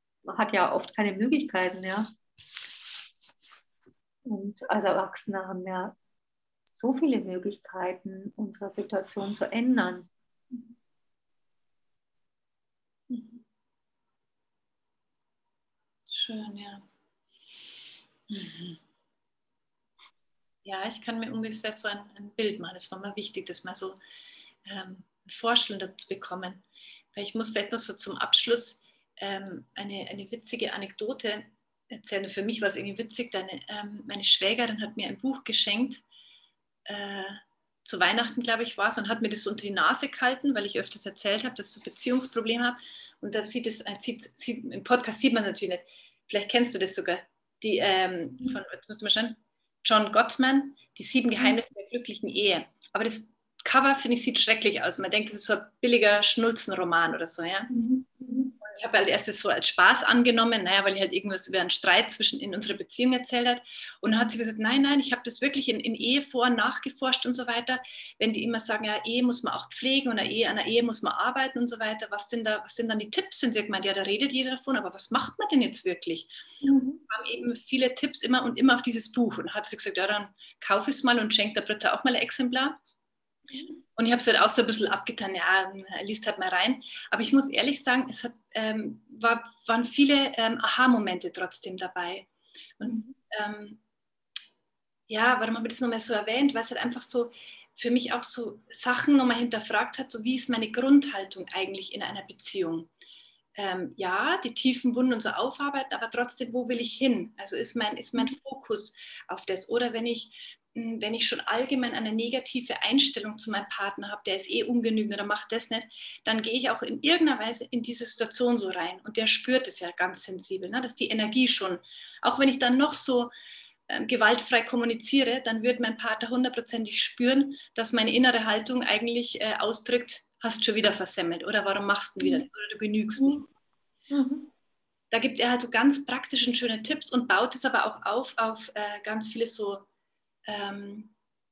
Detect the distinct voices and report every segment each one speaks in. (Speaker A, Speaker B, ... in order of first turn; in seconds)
Speaker A: 0.2-2.1, 4.2-6.0, 6.7-10.1, 57.7-58.5, 76.6-77.0, 92.8-93.1, 133.2-133.4, 134.1-134.5
Speaker B: 13.1-13.4, 16.1-16.9, 18.3-18.8, 20.6-24.0, 24.6-26.6, 27.1-36.0, 36.9-57.8, 58.6-76.3, 77.1-82.8, 83.9-93.8, 95.1-102.9, 103.5-123.3, 123.9-133.5, 135.1-139.8, 140.5-141.1